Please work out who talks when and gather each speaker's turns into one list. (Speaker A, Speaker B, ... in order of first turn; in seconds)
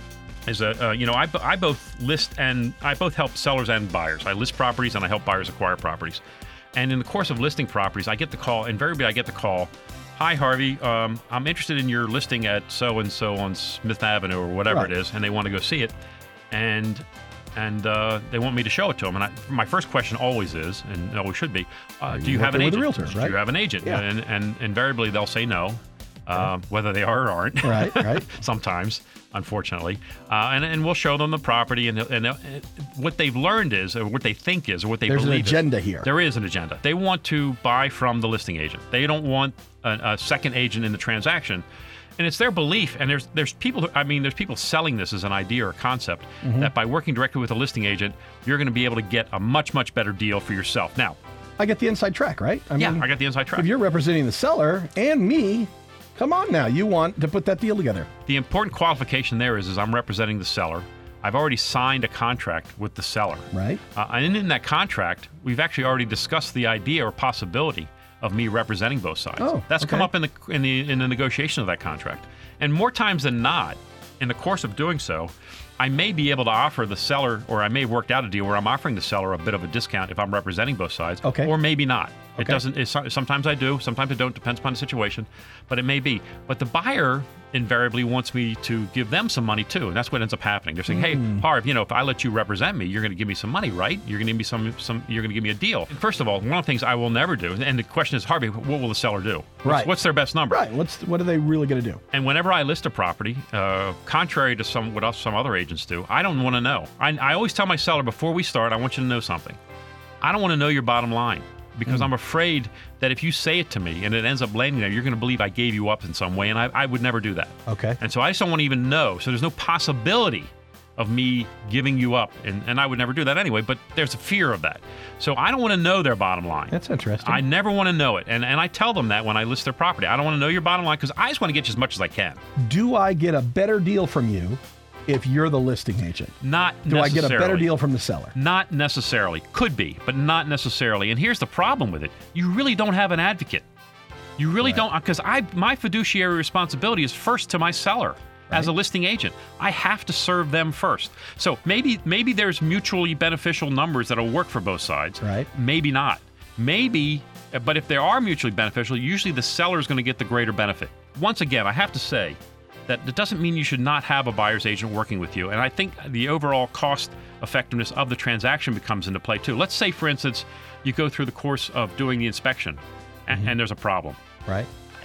Speaker A: 0.5-6.2, 6.7-15.9, 16.5-41.6, 42.2-51.2, 52.8-53.7, 58.3-100.7, 102.1-109.6, 110.2-132.4, 136.4-137.7, 138.3-143.7, 144.4-174.2
Speaker B: 22.1-24.0, 27.6-28.2, 35.1-36.1, 46.4-46.7, 51.6-58.1, 63.5-63.8, 69.4-70.1, 81.2-81.5, 90.9-91.5, 99.6-99.9, 100.5-102.0, 117.7-118.0, 126.7-127.4, 132.6-136.3, 136.9-138.3, 155.2-155.5